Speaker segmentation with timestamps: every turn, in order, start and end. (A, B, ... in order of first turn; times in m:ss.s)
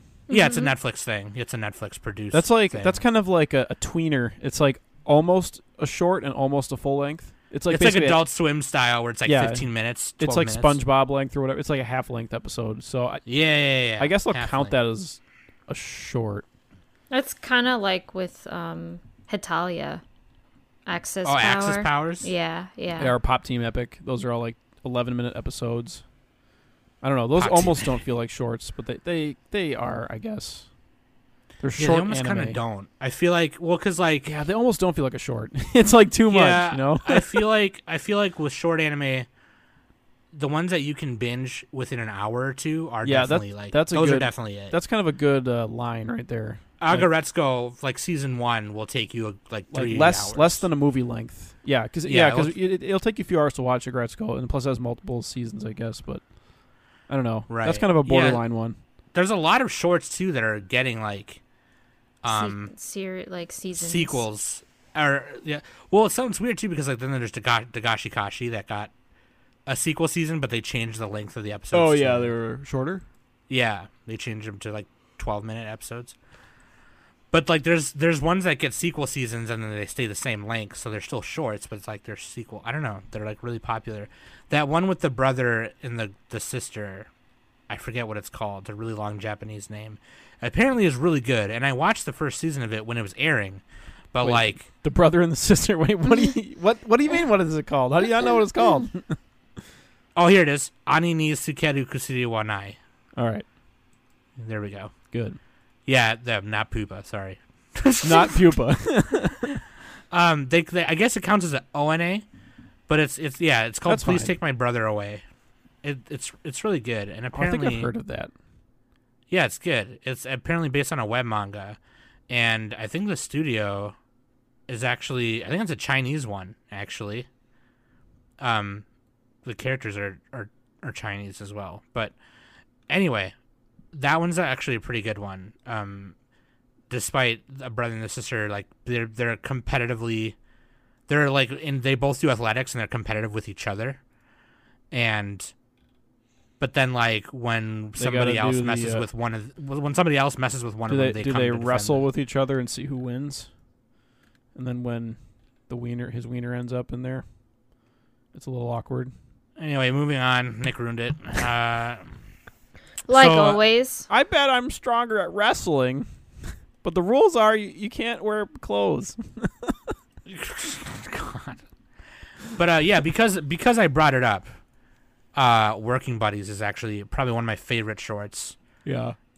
0:00.3-0:00.7 A
0:00.3-0:03.0 B
0:02.3-0:08.2 C
0:07.7-0:10.8 B
0:09.2-0:09.7 C
0:10.2-0:13.2 C
0:13.3-0:14.8 B
0:14.0-0:16.4 C
0:17.1-0:20.0 A
0:20.9-0:23.1 A
0:21.2-0:22.3 B
0:23.0-0:26.0 C
0:27.0-0:30.7 C
0:27.4-0:28.0 B
0:31.6-0:32.6 C
0:31.8-0:34.3 B
0:34.2-0:37.4 C
0:36.3-0:39.3 B
0:40.3-0:44.8 B
0:43.0-0:47.1 C
0:46.8-0:50.6 B
0:49.7-0:56.2 C
0:52.0-0:52.6 B
0:57.1-0:58.8 C
0:57.5-0:58.4 B
0:59.1-1:01.4 B
1:02.2-1:02.7 B
1:02.3-1:04.2 A
1:03.8-1:08.9 B
1:09.7-1:12.3 B
1:11.7-1:13.0 C
1:13.5-1:16.2 B
1:17.3-1:27.1 B
1:27.7-1:34.7 B
1:34.2-1:39.2 C
1:40.2-1:42.8 B
1:43.2-1:43.5 C
1:44.4-1:44.9 B
1:45.1-1:45.4 C
1:45.9-1:48.5 B
1:48.0-1:49.6 C
1:50.1-1:52.2 B
1:52.9-1:55.2 B
1:53.9-1:54.3 C
1:55.8-1:57.9 B
1:57.4-1:58.3 C
1:59.3-2:01.8 B
2:02.3-2:04.0 B
2:04.7-2:07.3 B
2:08.4-2:08.8 B
2:09.4-2:12.2 B
2:12.9-2:13.4 B
2:13.9-2:16.2 B
2:16.9-2:20.4 B
2:21.1-2:24.0 B
2:24.9-2:25.5 B
2:26.6-2:32.1 B
2:28.0-2:29.1 C
2:30.9-2:33.5 C
2:34.6-2:35.2 C
2:35.7-2:37.2 C
2:38.3-2:39.1 C
2:39.6-2:42.1 B
2:43.1-2:44.1 A
2:43.1-2:43.6 B
2:44.1-2:46.1 C
2:46.8-2:49.9 C
2:50.3-2:51.6 B
2:52.6-2:54.5 B
2:55.4-2:58.6 B
2:58.8-2:59.2 C